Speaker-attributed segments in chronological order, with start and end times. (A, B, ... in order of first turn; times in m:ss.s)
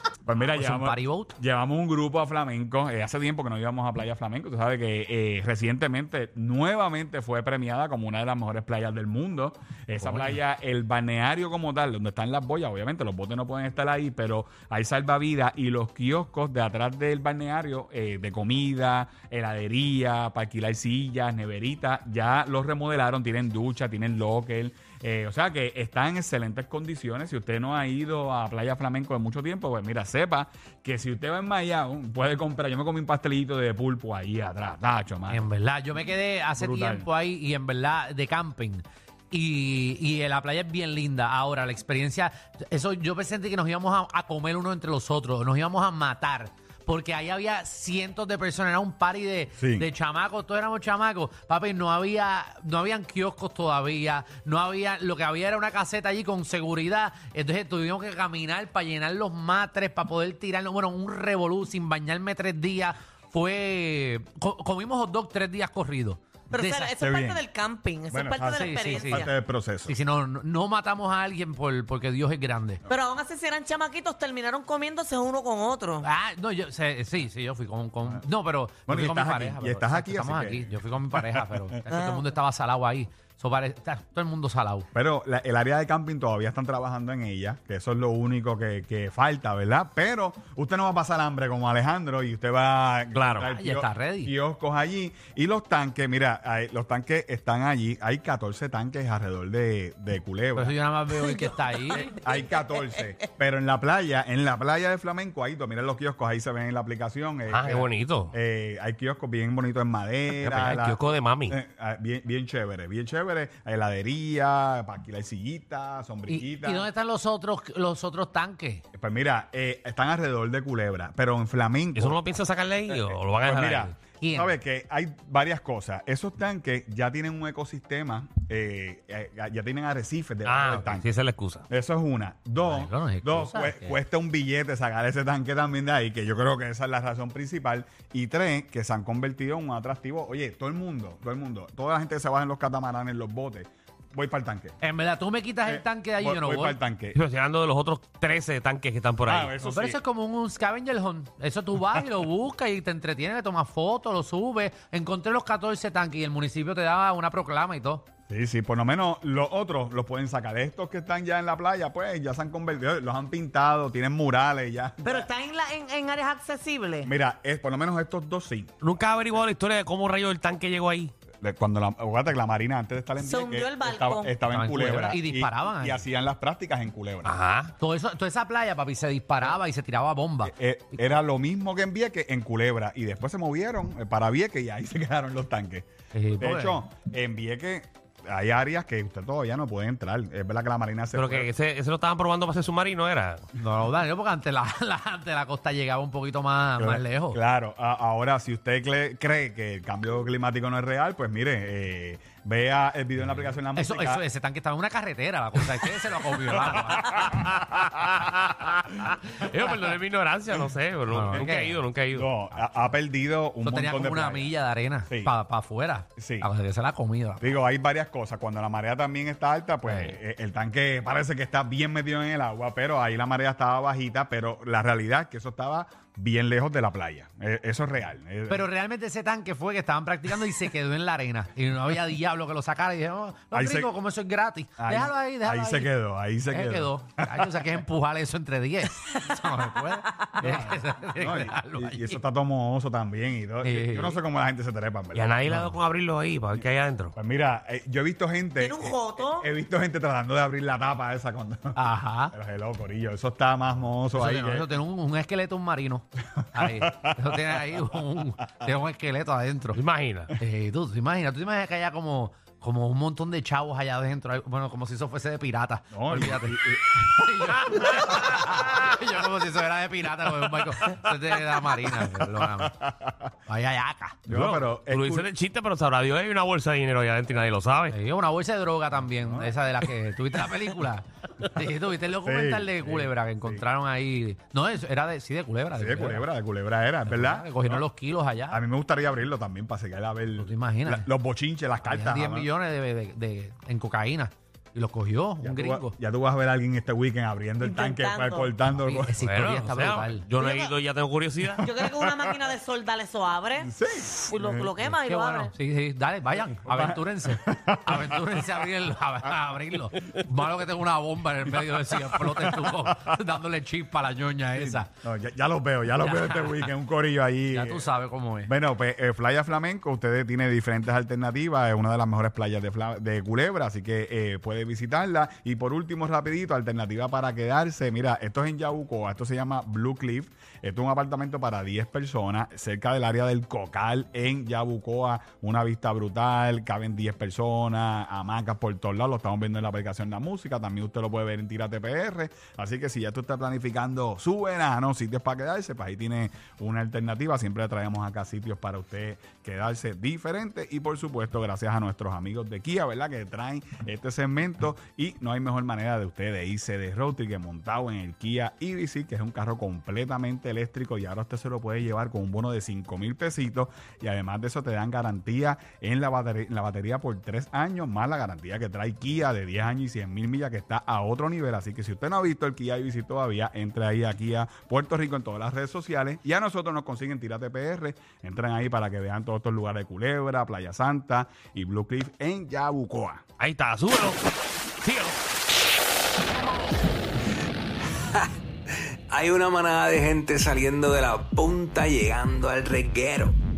0:00.2-0:37.1 A
0:00.4-0:01.3 B
0:10.0-0:10.4 B
0:35.3-1:06.9 B
0:49.6-0:49.9 A
1:06.5-1:09.3 C
1:07.0-1:07.4 A
1:08.1-1:10.0 A
1:08.5-1:09.3 B
1:09.8-1:12.8 B
1:12.9-1:16.1 C
1:16.0-1:24.9 B
1:18.9-1:21.7 A
1:21.9-1:22.2 C
1:24.9-1:40.8 A
1:33.3-1:34.3 B
1:40.6-1:42.1 B
1:42.0-1:56.9 A
1:47.5-1:48.3 D
1:50.3-1:51.6 D
1:56.3-1:58.8 B
1:58.9-2:02.2 A
2:01.9-2:03.9 D
2:02.9-2:11.1 A
2:04.2-2:04.6 B
2:10.4-2:11.6 D
2:11.7-2:24.8 A
2:12.6-2:14.0 B
2:24.8-2:26.8 B
2:25.7-2:27.2 A
2:27.1-2:29.5 D
2:29.2-2:30.0 A
2:29.6-2:38.0 B
2:38.3-2:45.3 A
2:45.0-2:47.1 C
2:47.0-2:48.7 A
2:48.8-2:51.1 D
2:51.4-2:57.4 A
2:53.2-2:54.3 C
2:54.5-2:56.1 B
2:57.2-2:57.7 D
2:57.8-3:01.2 B
3:00.4-3:11.5 A
3:06.1-3:06.8 B
3:11.1-3:13.5 D
3:13.6-3:17.4 B
3:16.8-3:24.2 A
3:23.4-3:27.3 B
3:26.7-3:27.4 A
3:27.2-3:32.3 D
3:31.1-3:31.8 B
3:32.1-3:34.5 A
3:33.6-3:37.6 B
3:35.1-3:35.4 A
3:36.2-3:36.5 A
3:37.4-3:48.7 A
3:39.9-3:40.2 D
3:48.5-3:55.9 B
3:53.5-3:54.0 A
3:54.8-3:57.6 A
3:56.5-4:02.2 B
4:00.4-4:05.8 A
4:03.6-4:04.2 B
4:05.1-4:07.2 D
4:07.2-4:14.7 A
4:08.6-4:09.5 C
4:11.8-4:12.4 B
4:14.1-4:19.8 B
4:16.6-4:17.8 A
4:19.7-4:20.3 D
4:20.4-4:32.8 B
4:25.9-4:27.7 A
4:32.0-4:33.3 A
4:33.5-4:34.5 B
4:34.3-4:35.3 A
4:34.3-4:38.0 D
4:37.9-4:46.3 B
4:39.2-4:39.6 A
4:42.2-4:43.6 A
4:45.8-4:47.8 A
4:47.0-4:48.6 B
4:48.5-4:52.5 A
4:50.4-4:51.1 B
4:51.8-4:56.0 B
4:55.4-4:59.1 A
4:57.6-4:58.5 C
4:58.8-5:00.3 B
4:59.2-5:01.7 D
5:00.4-5:00.7 C
5:01.6-5:05.5 C
5:02.0-5:02.4 A
5:03.6-5:04.8 A
5:04.8-5:14.9 B
5:06.6-5:08.4 A
5:11.5-5:13.2 A
5:14.6-5:17.9 A
5:16.0-5:16.7 B
5:17.5-5:18.5 B
5:18.4-6:23.2 A
6:23.4-6:24.2 D
6:24.8-6:25.2 D
6:29.1-6:33.4 E